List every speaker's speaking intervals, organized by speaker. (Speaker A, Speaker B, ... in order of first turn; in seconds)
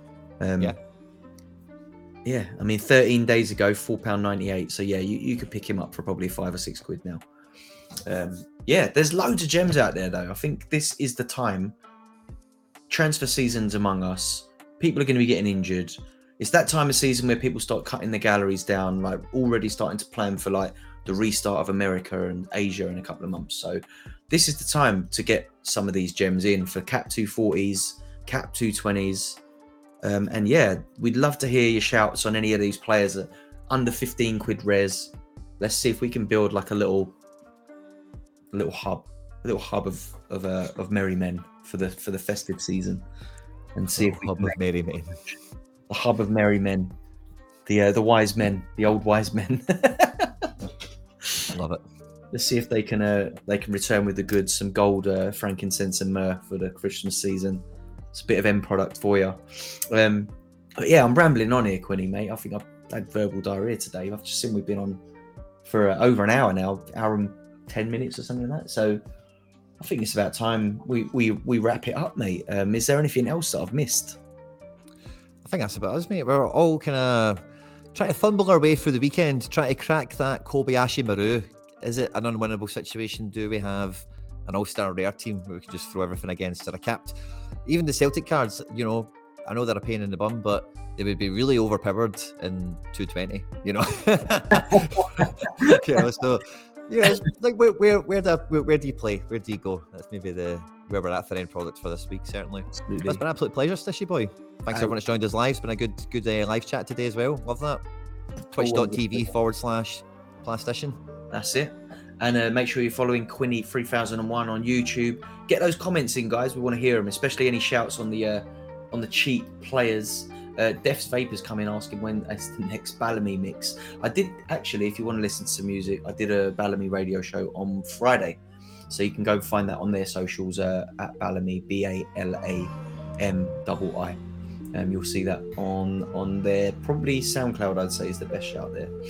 Speaker A: 0.4-0.7, 2.2-7.2, 8.1-11.8, 12.9-29.4, 30.0-37.1, 38.5-43.0, 43.7-44.6, 45.9-46.9, 47.7-50.5, 52.3-65.0, 65.6-69.0, 69.8-74.2, 94.7-95.8, 102.8-103.2, 108.5-109.3, 111.3-134.2, 134.7-138.9
Speaker B: 43.9-45.2, 51.5-51.8, 75.4-77.4, 77.9-107.8, 108.5-111.0